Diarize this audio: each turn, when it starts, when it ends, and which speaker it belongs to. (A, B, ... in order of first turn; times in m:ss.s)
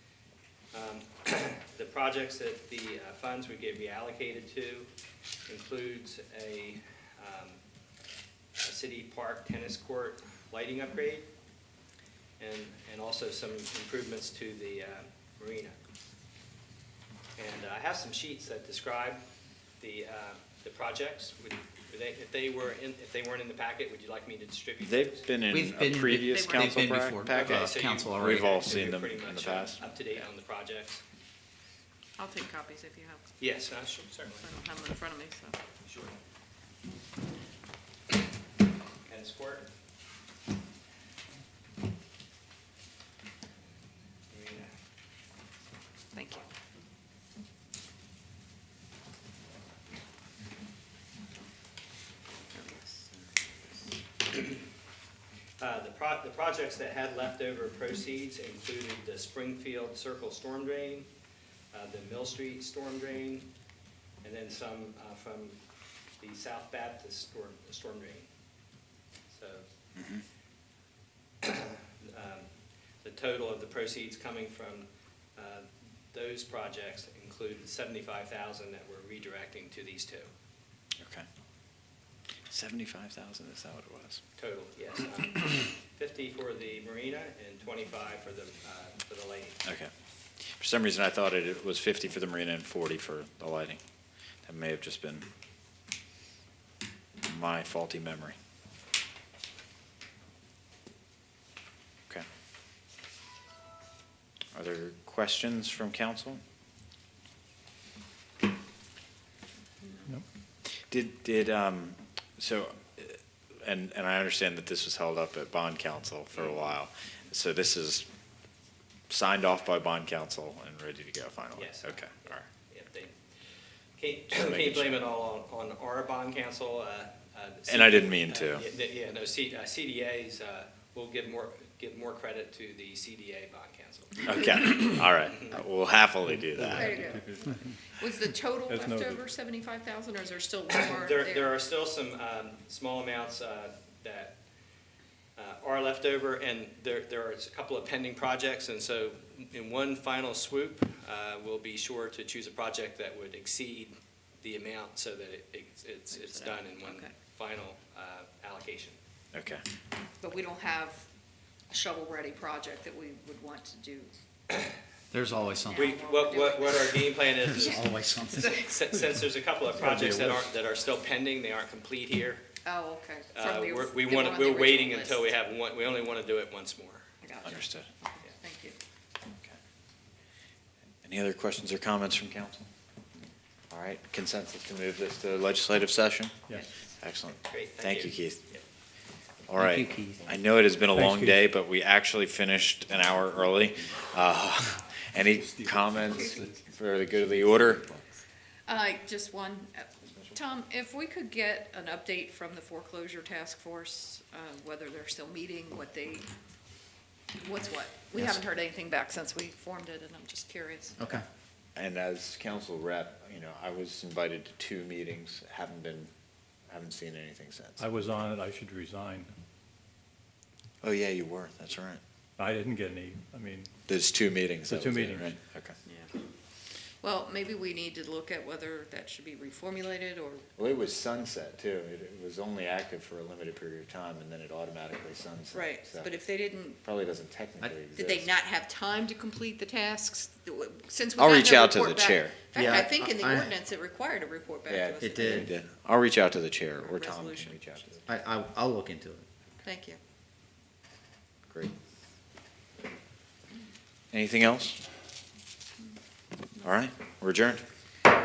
0:00.7-0:04.9 A
0:05.5-0:07.6 A
0:08.6-0:11.3 A
0:12.4-0:15.8 A
0:17.4-0:19.2 A
0:19.8-0:25.3 A
0:24.8-0:29.8 B
0:25.5-0:28.6 C
0:26.2-0:26.8 D
0:27.2-0:31.0 A
0:32.2-0:33.2 D
0:33.4-0:34.5 A
0:34.4-0:35.6 D
0:35.8-0:36.2 A
0:39.1-0:39.7 A
0:44.3-0:44.7 A
0:46.1-0:46.4 D
0:52.6-0:53.2 D
0:54.3-0:54.6 A
0:55.6-1:01.1 A
1:01.7-1:03.5 A
1:04.2-1:05.6 A
1:06.2-1:08.3 A
1:09.3-1:09.7 A
1:11.4-1:12.5 A
1:13.0-1:20.3 A
1:21.0-1:21.3 B
1:22.5-1:24.2 B
1:24.4-1:29.6 A
1:29.6-1:29.9 B
1:30.5-1:33.8 B
1:34.4-1:35.3 B
1:37.2-1:38.4 B
1:44.6-1:46.4 B
1:50.9-1:58.1 B
1:59.1-2:02.4 B
2:01.6-2:03.2 A
2:04.0-2:14.8 A
2:04.3-2:05.1 B
2:07.7-2:08.7 B
2:14.2-2:17.1 B
2:16.5-2:17.7 E
2:16.7-2:21.6 D
2:18.7-2:19.3 E
2:20.7-2:24.4 A
2:25.4-2:39.0 A
2:36.1-2:37.1 D
2:39.3-2:39.6 B
2:40.2-2:41.0 D
2:41.7-2:44.1 D
2:45.1-2:45.9 C
2:45.3-2:47.1 D
2:45.7-2:52.4 A
2:47.4-2:48.7 C
2:48.3-2:48.6 D
2:49.9-2:50.3 C
2:52.6-2:55.3 D
2:53.3-2:57.1 A
2:57.2-2:58.8 D
2:57.4-2:57.9 B
3:01.0-3:02.7 B
3:03.7-3:08.4 B
3:07.4-3:08.6 A
3:09.5-3:17.9 B
3:09.6-3:10.3 C
3:10.9-3:11.4 E
3:15.2-3:16.6 E
3:16.0-3:16.5 D
3:18.7-3:26.3 D
3:27.4-3:31.2 D
3:31.0-3:31.2 C
3:31.8-3:36.1 B
3:36.7-3:37.9 B
3:37.8-3:39.3 E
3:40.8-3:42.0 B
3:42.4-3:43.7 E
3:43.9-3:45.8 B
3:44.7-3:45.4 E
3:47.0-3:50.5 D
3:50.6-3:56.1 B
3:55.5-3:56.8 D
3:56.8-3:58.3 B
3:57.9-4:05.5 D
4:01.2-4:02.6 B
4:02.5-4:03.5 C
4:04.7-4:08.0 B
4:05.0-4:05.5 C
4:06.8-4:07.9 D
4:08.0-4:09.3 C
4:09.6-4:10.0 D
4:14.1-4:14.8 B
4:16.6-4:17.6 B